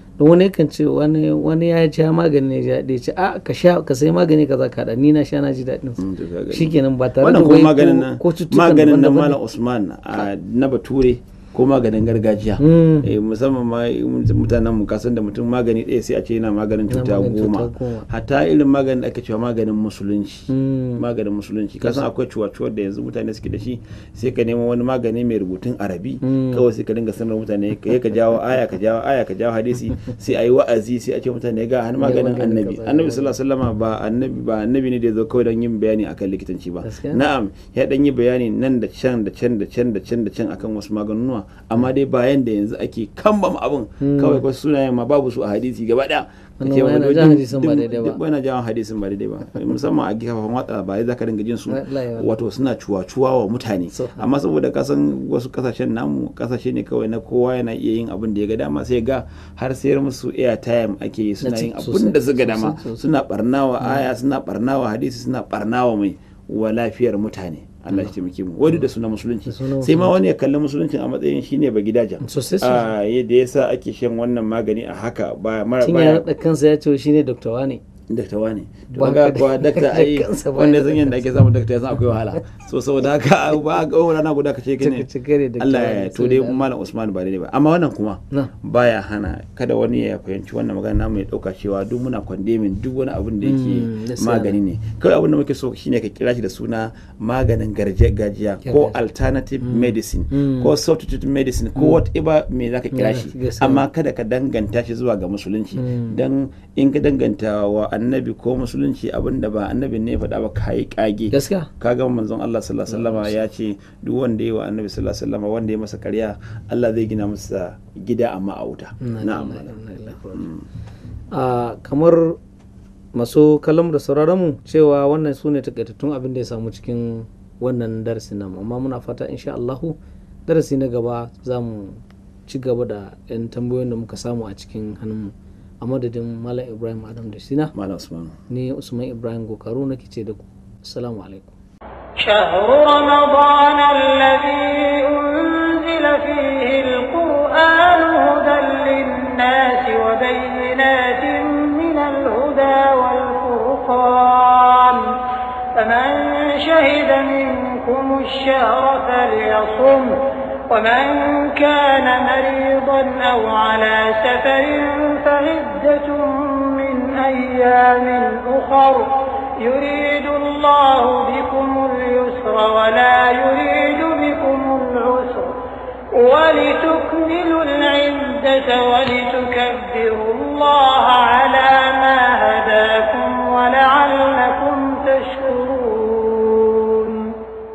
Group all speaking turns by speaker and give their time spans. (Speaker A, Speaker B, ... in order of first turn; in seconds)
Speaker A: 0.2-9.4, 12.6-13.1, 16.9-18.1, 20.5-21.0, 26.2-26.6, 32.0-33.4, 36.9-37.2, 44.0-44.4, 46.6-48.2, 51.7-52.3, 53.9-54.2, 61.4-63.0, 69.5-70.1, 72.2-72.9, 75.8-77.8, 78.9-81.3, 84.8-86.7, 93.4-94.6, 98.7-99.0, 99.6-100.7, 102.9-103.8, 105.8-106.2, 111.3-111.7, 119.0-120.5, 121.3-122.4, 123.2-130.0, 130.5-137.7, 138.5-141.5
Speaker B: 6.0-76.3, 78.1-85.1, 85.6-119.7, 120.3-120.6, 137.7-138.3
Speaker C: 142.2-175.6, 176.1-187.4